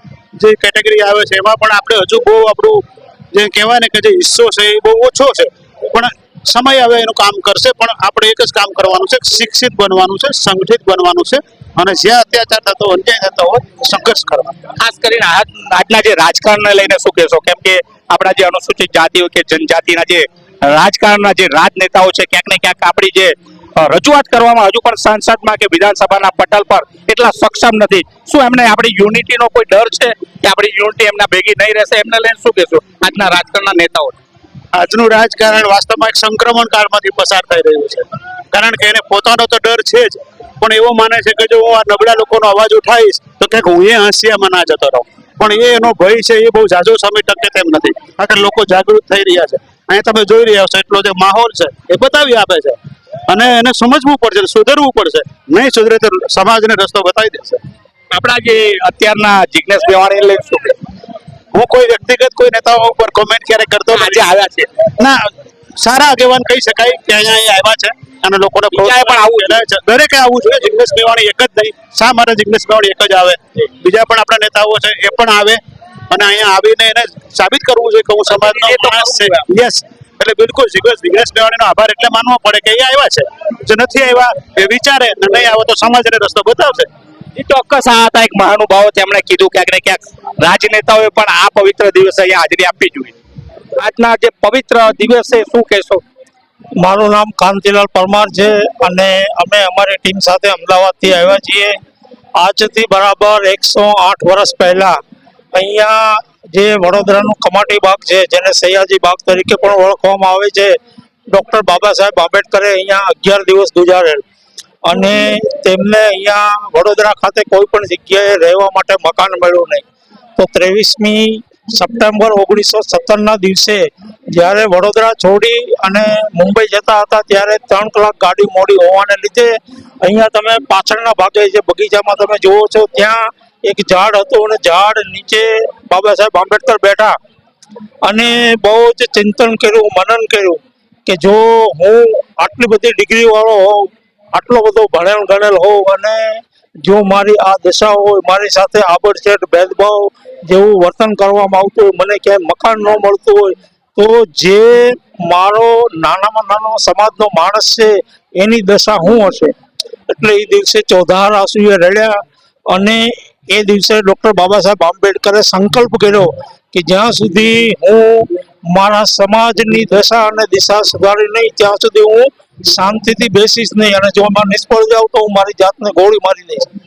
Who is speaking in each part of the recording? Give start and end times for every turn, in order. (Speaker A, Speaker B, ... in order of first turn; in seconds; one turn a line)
Speaker A: 0.4-14.7
Speaker B: 14.8-34.2
Speaker A: 34.7-57.6
Speaker B: 58.1-60.8
Speaker A: 61.5-64.3
Speaker B: 63.9-64.7
Speaker A: 64.9-86.9
Speaker B: 68.7-69.6
Speaker B: 78.3-79.4
Speaker B: 87.3-93.2
Speaker B: 93.8-96.0
Speaker C: 96.8-101.8
Speaker C: 102.4-105.0
Speaker C: 105.5-110.8
Speaker C: 111.3-114.2
Speaker C: 114.8-119.8
Speaker C: 120.4-137.2
Speaker C: 138.0-159.6
Speaker C: 160.1-176.7